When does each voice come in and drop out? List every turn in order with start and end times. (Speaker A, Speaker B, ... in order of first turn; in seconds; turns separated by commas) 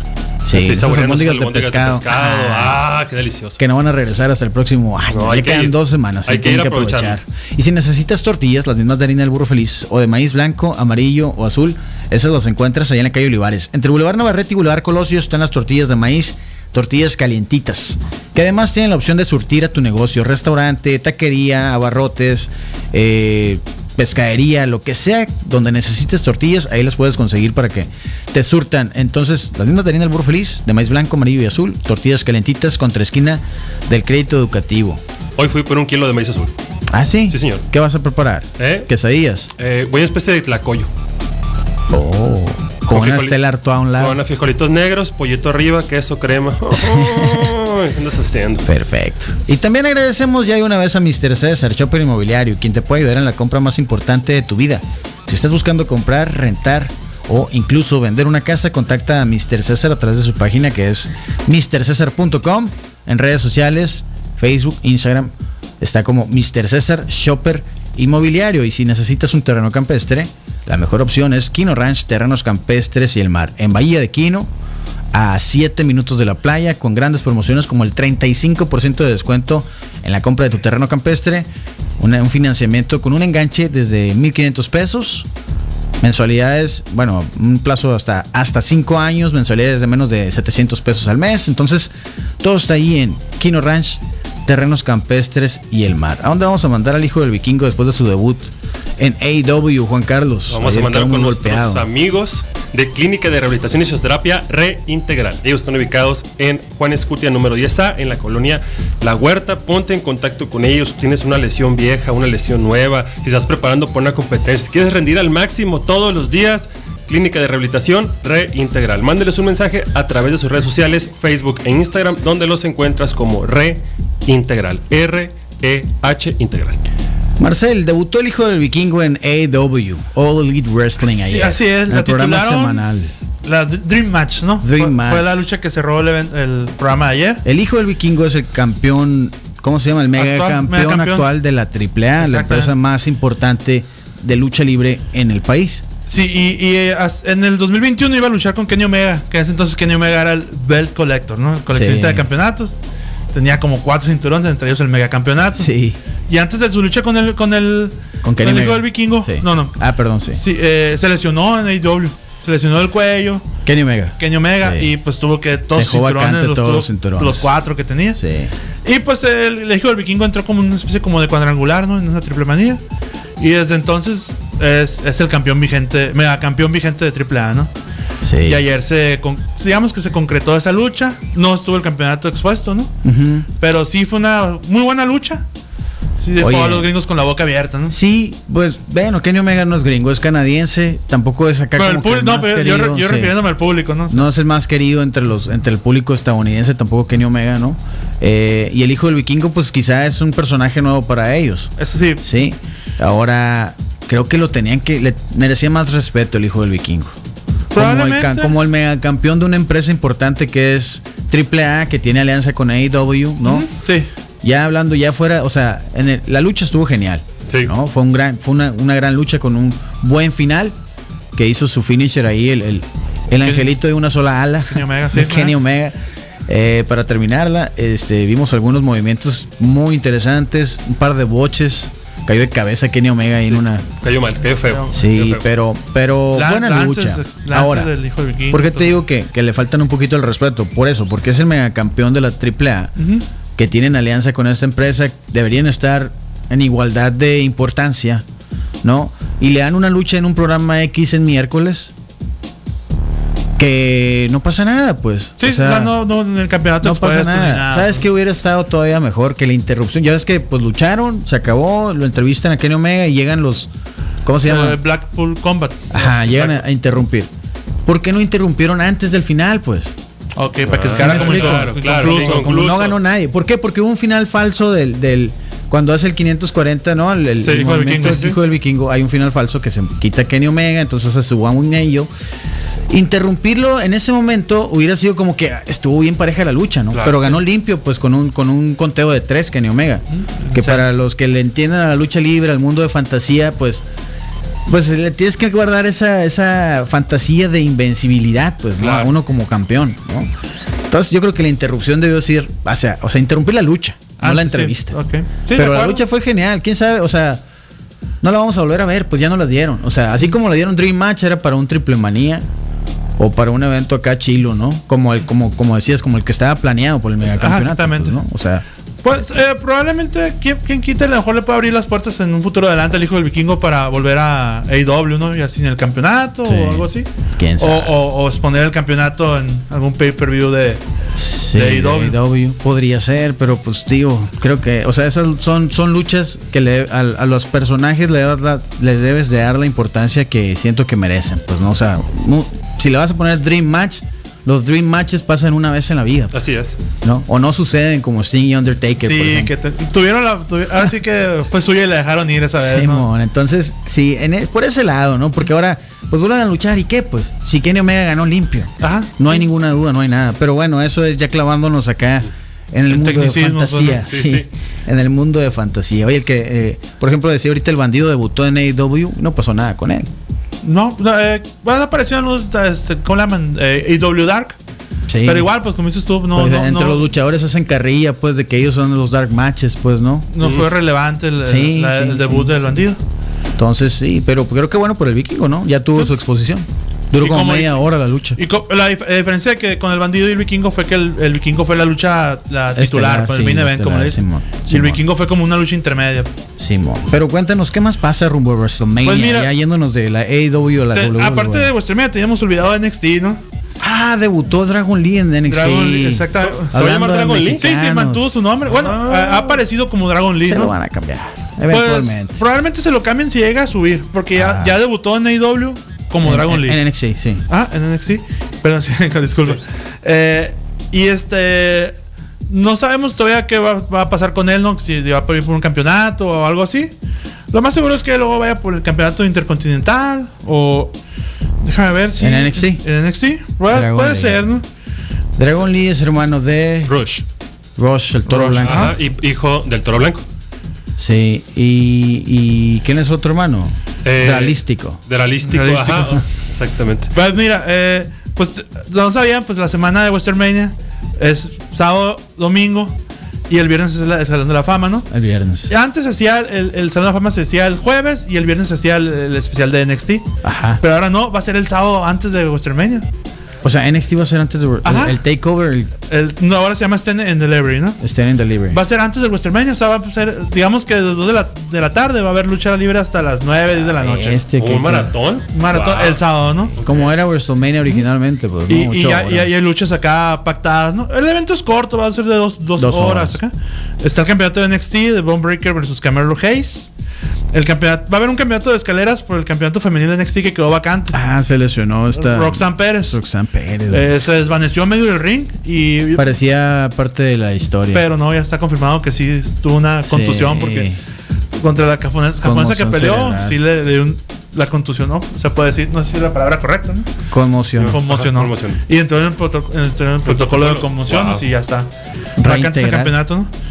Speaker A: 0.4-2.8, Speaker B: 0.5-3.6, Speaker A: 3.6-35.0, Speaker B: 5.1-7.2, Speaker B: 35.4-36.5, Speaker A: 36.9-39.5, Speaker B: 37.3-37.6, Speaker B: 38.6-38.9, Speaker B: 39.6-40.9, Speaker A: 41.9-44.2, Speaker B: 42.9-43.4, Speaker B: 44.0-48.7, Speaker A: 46.7-47.5, Speaker A: 48.7-74.5, Speaker A: 75.1-81.5, Speaker A: 82.0-85.3, Speaker A: 86.0-101.9, Speaker B: 100.5-126.8, Speaker A: 127.4-133.1, Speaker C: 131.0-132.8, Speaker C: 133.4-137.4, Speaker A: 134.6-135.4, Speaker A: 137.4-145.8, Speaker C: 140.2-141.3, Speaker C: 142.2-142.7, Speaker C: 146.1-152.7, Speaker A: 151.7-152.3, Speaker C: 153.3-155.7, Speaker A: 155.5-156.0, Speaker C: 156.3-159.8, Speaker A: 158.2-160.4, Speaker C: 160.3-163.5, Speaker A: 163.6-164.9, Speaker C: 164.2-168.2, Speaker A: 165.7-167.5, Speaker A: 168.2-168.5, Speaker C: 168.8-172.8, Speaker C: 173.4-177.7, Speaker A: 178.2-178.6, Speaker C: 178.4-182.9, Speaker A: 183.0-183.5, Speaker C: 183.6-185.4, Speaker C: 186.2-187.9, Speaker A: 186.4-186.9, Speaker A: 187.9-193.3, Speaker C: 191.8-194.2, Speaker A: 194.1-201.7, Speaker C: 201.8-202.2, Speaker A: 202.2-207.1, Speaker C: 207.7-208.6, Speaker A: 207.7-213.7, Speaker C: 213.4-214.1, Speaker A: 214.4-220.8, Speaker A: 221.3-233.8, Speaker C: 223.4-223.7, Speaker C: 224.7-225.5, Speaker B: 233.5-235.4, Speaker A: 234.9-237.9, Speaker C: 236.3-239.0, Speaker A: 238.5-242.9, Speaker C: 243.0-243.2, Speaker A: 243.6-248.2, Speaker A: 248.8-251.9, Speaker A: 253.6-255.9, Speaker C: 255.4-258.1, Speaker A: 256.8-263.7, Speaker A: 264.2-264.8, Speaker C: 264.4-266.6, Speaker A: 265.9-267.3, Speaker A: 267.9-269.9, Speaker C: 270.4-272.7, Speaker B: 270.6-273.0, Speaker A: 270.9-282.1, Speaker B: 277.4-278.4, Speaker C: 277.5-278.3, Speaker A: 282.9-293.8, Speaker B: 286.9-287.4, Speaker C: 290.1-290.8, Speaker A: 294.7-300.3, Speaker B: 298.8-299.1, Speaker A: 300.9-305.0, Speaker C: 304.2-306.0, Speaker A: 305.5-307.4, Speaker A: 308.2-312.5, Speaker A: 313.2-318.6, Speaker C: 317.2-318.2, Speaker C: 319.0-327.1, Speaker A: 326.4-327.9, Speaker C: 327.6-330.8, Speaker A: 331.1-346.3, Speaker C: 331.5-332.2, Speaker B: 346.3-346.8, Speaker A: 347.0-349.5, Speaker C: 349.0-353.1, Speaker A: 352.6-370.1, Speaker C: 358.8-359.4, Speaker C: 362.9-364.1, Speaker B: 364.1-364.5, Speaker C: 370.6-374.6, Speaker A: 375.1-375.5, Speaker C: 375.2-377.1, Speaker A: 376.3-380.3, Speaker C: 380.3-383.0, Speaker B: 380.4-380.6, Speaker A: 381.4-382.8, Speaker A: 383.6-388.4, Speaker C: 387.2-387.8, Speaker C: 388.4-396.3, Speaker A: 392.7-395.0, Speaker A: 396.6-401.7, Speaker C: 399.0-399.5, Speaker C: 400.9-403.4, Speaker A: 403.8-408.3, Speaker C: 405.5-406.7, Speaker B: 406.6-407.7, Speaker C: 407.6-410.7, Speaker A: 410.4-412.4, Speaker C: 411.7-416.8, Speaker A: 414.3-414.8, Speaker A: 416.2-417.4, Speaker C: 417.5-422.0, Speaker C: 422.5-426.9, Speaker C: 427.5-430.9, Speaker C: 431.6-434.6, Speaker A: 432.2-432.8, Speaker A: 433.7-434.4, Speaker A: 435.4-436.9, Speaker B: 436.9-437.2, Speaker A: 437.8-438.9, Speaker C: 438.3-438.9, Speaker B: 438.6-440.2, Speaker A: 441.0-445.0, Speaker B: 444.0-447.1, Speaker C: 445.4-446.2, Speaker C: 447.1-452.9, Speaker C: 453.5-455.1, Speaker A: 455.1-455.7, Speaker C: 455.7-463.1, Speaker A: 460.4-460.8, Speaker A: 463.6-465.9, Speaker C: 464.8-465.2, Speaker C: 466.1-468.0, Speaker A: 468.0-468.8, Speaker C: 468.7-474.4, Speaker A: 473.8-475.1, Speaker B: 474.6-476.2, Speaker C: 475.5-476.8, Speaker B: 476.8-477.1, Speaker A: 476.8-479.5, Speaker C: 478.7-486.9, Speaker A: 482.8-483.4, Speaker C: 487.5-491.2, Speaker A: 491.1-494.1, Speaker C: 492.1-493.2, Speaker C: 493.9-496.3, Speaker A: 496.1-498.0, Speaker C: 497.9-500.9, Speaker A: 500.1-501.0, Speaker C: 501.5-507.1, Speaker A: 502.4-503.6, Speaker A: 507.3-508.0, Speaker B: 507.8-508.8, Speaker C: 507.9-511.9, Speaker B: 510.2-511.4, Speaker A: 512.4-513.1, Speaker C: 512.4-513.5